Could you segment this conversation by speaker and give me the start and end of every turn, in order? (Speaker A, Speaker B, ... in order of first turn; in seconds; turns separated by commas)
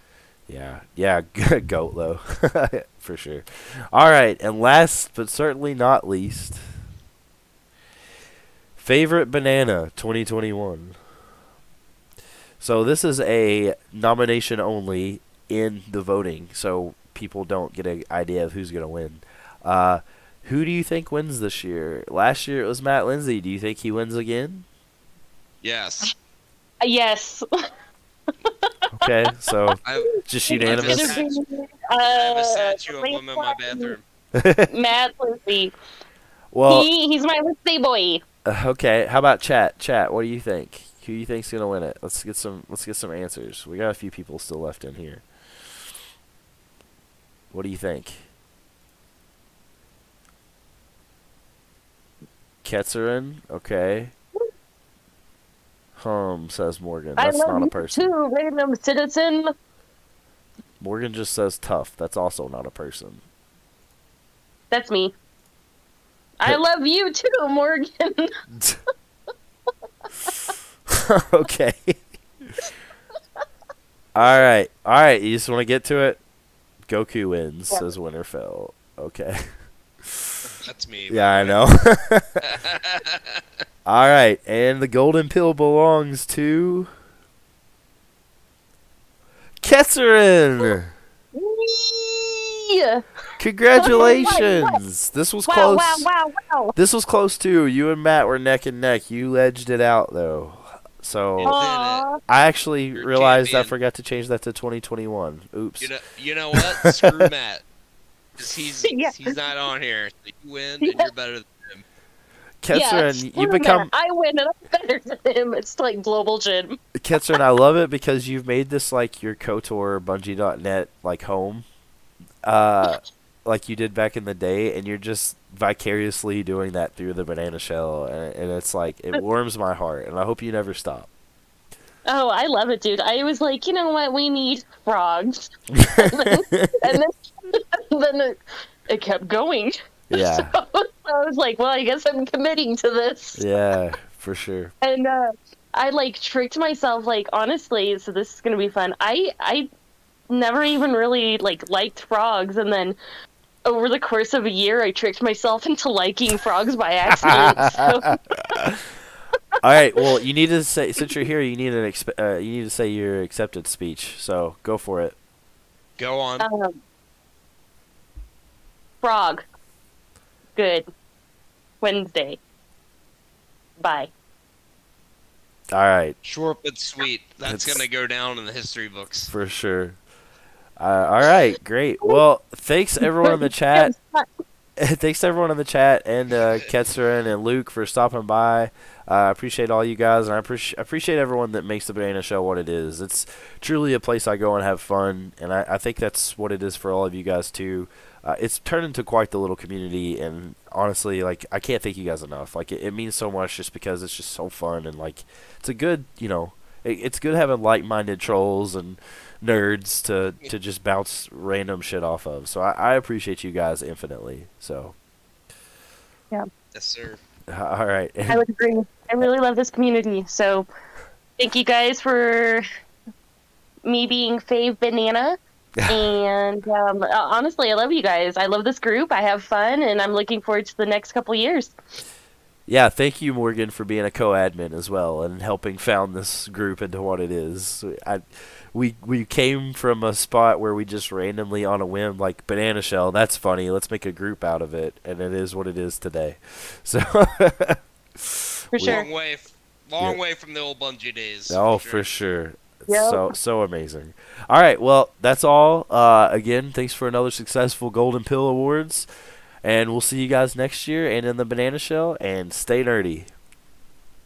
Speaker A: 0.5-6.6, Speaker A: 8.8-11.0, Speaker A: 12.6-24.6, Speaker B: 25.6-26.1, Speaker C: 26.8-27.4, Speaker C: 28.4-28.7, Speaker A: 28.9-31.2, Speaker B: 29.8-31.4, Speaker C: 30.0-33.9, Speaker B: 32.1-34.0, Speaker A: 34.3-34.7, Speaker C: 34.7-35.7, Speaker A: 36.5-36.9, Speaker C: 36.7-38.2, Speaker A: 38.5-45.2, Speaker A: 47.5-48.2, Speaker A: 52.6-54.1, Speaker A: 56.0-58.1, Speaker C: 57.2-59.5, Speaker A: 60.8-63.2, Speaker C: 64.7-65.1, Speaker C: 66.4-68.3, Speaker A: 68.5-68.8, Speaker A: 70.9-72.0, Speaker A: 74.1-76.2, Speaker A: 76.8-80.3, Speaker B: 80.6-81.6, Speaker A: 81.1-82.4, Speaker B: 82.4-83.4, Speaker A: 83.8-86.9, Speaker A: 89.6-90.9, Speaker C: 91.3-93.0, Speaker A: 93.4-96.1, Speaker C: 93.8-94.8, Speaker C: 95.5-96.8, Speaker A: 96.8-101.6, Speaker B: 101.4-102.0, Speaker C: 101.4-102.2, Speaker A: 102.3-105.9, Speaker B: 102.9-103.7, Speaker B: 105.8-107.6, Speaker A: 106.5-107.2, Speaker B: 108.4-111.8, Speaker C: 108.9-109.3, Speaker C: 110.8-111.1, Speaker A: 112.6-113.9, Speaker C: 112.7-116.8, Speaker A: 117.0-121.7, Speaker A: 122.4-131.1, Speaker C: 132.0-143.4, Speaker A: 135.7-137.0, Speaker A: 140.1-140.6, Speaker A: 143.3-144.7, Speaker C: 144.8-149.7, Speaker C: 150.3-153.0, Speaker C: 153.6-158.2, Speaker A: 157.1-158.9, Speaker A: 159.6-165.2, Speaker B: 166.0-166.5, Speaker C: 166.4-166.8, Speaker C: 169.0-169.4, Speaker C: 170.6-170.8, Speaker C: 171.8-172.4, Speaker C: 173.8-174.1, Speaker A: 175.7-176.2, Speaker B: 176.2-179.3, Speaker A: 177.4-177.8, Speaker A: 179.3-180.0, Speaker A: 180.8-183.9, Speaker C: 183.2-184.3, Speaker A: 184.8-214.9, Speaker B: 216.7-217.2, Speaker A: 217.5-218.4, Speaker C: 218.3-220.7, Speaker C: 221.4-222.6, Speaker C: 223.8-231.7, Speaker A: 232.7-249.0, Speaker C: 248.7-249.1, Speaker B: 248.8-252.1, Speaker A: 251.5-259.1, Speaker C: 252.9-253.3, Speaker A: 259.6-263.3